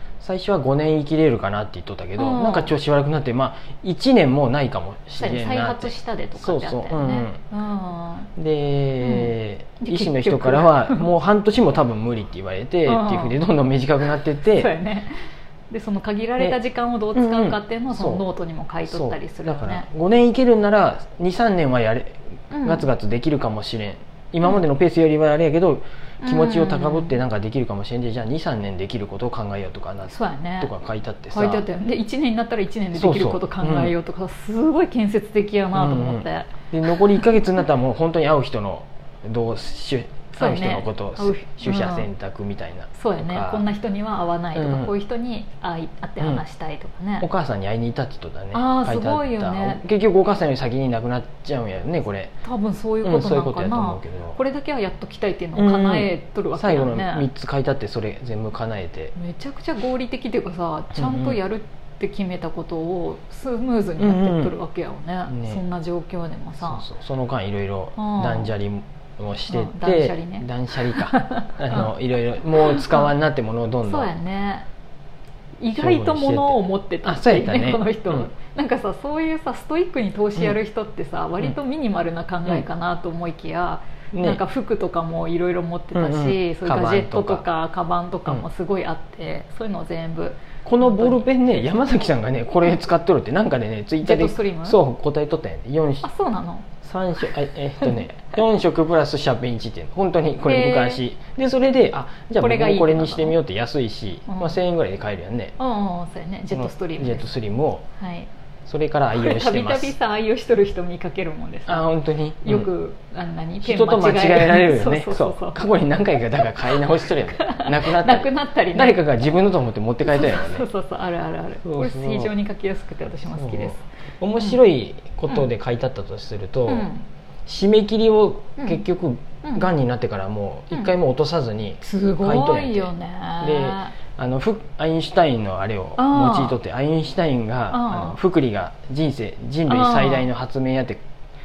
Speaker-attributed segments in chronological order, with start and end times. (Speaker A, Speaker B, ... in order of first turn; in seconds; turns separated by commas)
Speaker A: 0.2-7.4, Speaker B: 2.2-2.8, Speaker B: 5.2-8.3, Speaker A: 8.3-14.7, Speaker B: 9.0-11.1, Speaker B: 12.9-13.4, Speaker B: 14.5-19.9, Speaker A: 17.1-18.2, Speaker A: 18.9-31.7, Speaker B: 22.5-22.9, Speaker B: 26.2-27.2, Speaker B: 30.1-30.7, Speaker B: 31.3-36.5, Speaker A: 32.9-33.9, Speaker A: 35.7-43.7, Speaker B: 40.3-42.1, Speaker B: 43.0-47.3, Speaker A: 44.5-44.9, Speaker A: 47.2-52.4, Speaker B: 48.5-49.8, Speaker B: 52.4-57.3, Speaker A: 53.0-54.4, Speaker A: 55.5-59.1, Speaker B: 59.1-66.8, Speaker A: 60.9-61.4, Speaker A: 64.0-64.6, Speaker A: 65.3-65.6, Speaker A: 66.6-74.2, Speaker B: 68.0-68.5, Speaker B: 69.5-71.9, Speaker B: 72.6-73.1, Speaker B: 73.9-74.7, Speaker B: 75.6-91.7, Speaker A: 75.7-78.3, Speaker A: 84.1-84.4, Speaker A: 85.9-87.5, Speaker A: 90.6-96.1, Speaker B: 94.0-94.8, Speaker B: 96.0-96.7, Speaker A: 96.7-105.5, Speaker B: 100.5-101.0, Speaker B: 102.4-103.4, Speaker B: 104.3-104.6, Speaker B: 105.6-107.3, Speaker A: 106.5-107.9, Speaker B: 108.0-108.3, Speaker A: 108.7-110.0, Speaker B: 109.1-111.9, Speaker A: 111.7-112.7, Speaker B: 112.4-115.7, Speaker A: 113.6-120.7, Speaker B: 116.4-116.8, Speaker B: 117.3-119.1, Speaker B: 120.0-123.8, Speaker A: 121.6-122.3, Speaker A: 123.2-126.9, Speaker B: 126.7-127.1, Speaker A: 127.5-141.0, Speaker B: 128.6-128.8, Speaker B: 129.4-129.7, Speaker B: 131.8-134.0, Speaker B: 136.0-136.6, Speaker B: 137.7-138.2, Speaker B: 139.7-140.3